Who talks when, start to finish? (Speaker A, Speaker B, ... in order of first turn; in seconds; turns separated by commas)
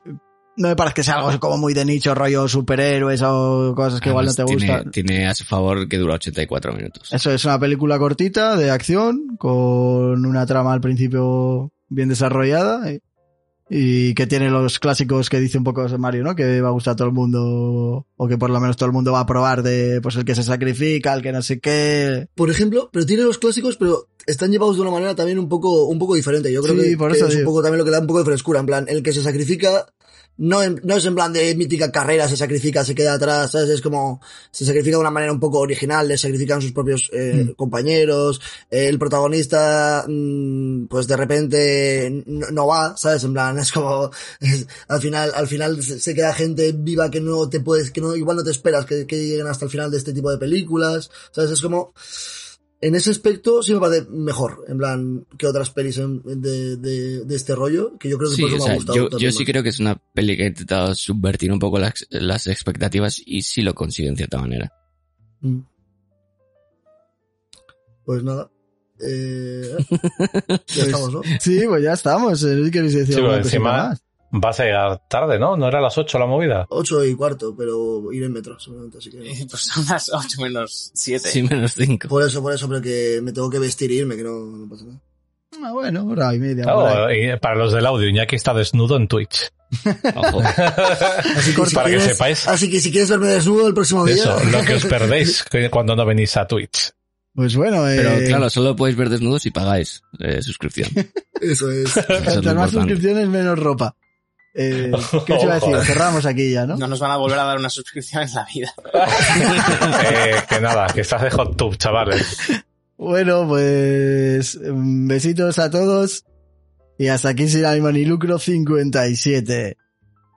Speaker A: 0.6-4.9, Speaker B: 4.0-7.1, Speaker A: 7.1-13.0, Speaker A: 13.7-22.3, Speaker C: 22.4-51.9, Speaker A: 26.6-27.5, Speaker C: 52.8-59.5, Speaker B: 58.3-64.7, Speaker C: 68.1-69.9, Speaker C: 70.7-71.3, Speaker A: 70.8-74.0, Speaker D: 73.1-76.7, Speaker C: 76.7-79.3, Speaker E: 79.3-81.4, Speaker B: 81.2-82.1, Speaker C: 82.1-85.0, Speaker A: 85.5-87.0, Speaker D: 86.7-89.5, Speaker A: 89.8-90.4, Speaker B: 90.2-90.5, Speaker D: 90.5-92.5, Speaker C: 91.3-95.3, Speaker A: 91.3-91.9, Speaker D: 94.0-96.9, Speaker A: 97.4-98.5, Speaker B: 98.0-101.0, Speaker C: 101.4-102.1, Speaker B: 102.2-103.0, Speaker A: 102.2-103.9, Speaker A: 104.5-106.8, Speaker D: 104.9-105.9, Speaker E: 106.7-110.2, Speaker D: 109.1-112.4, Speaker B: 109.5-110.0, Speaker A: 113.0-116.2, Speaker A: 117.0-119.8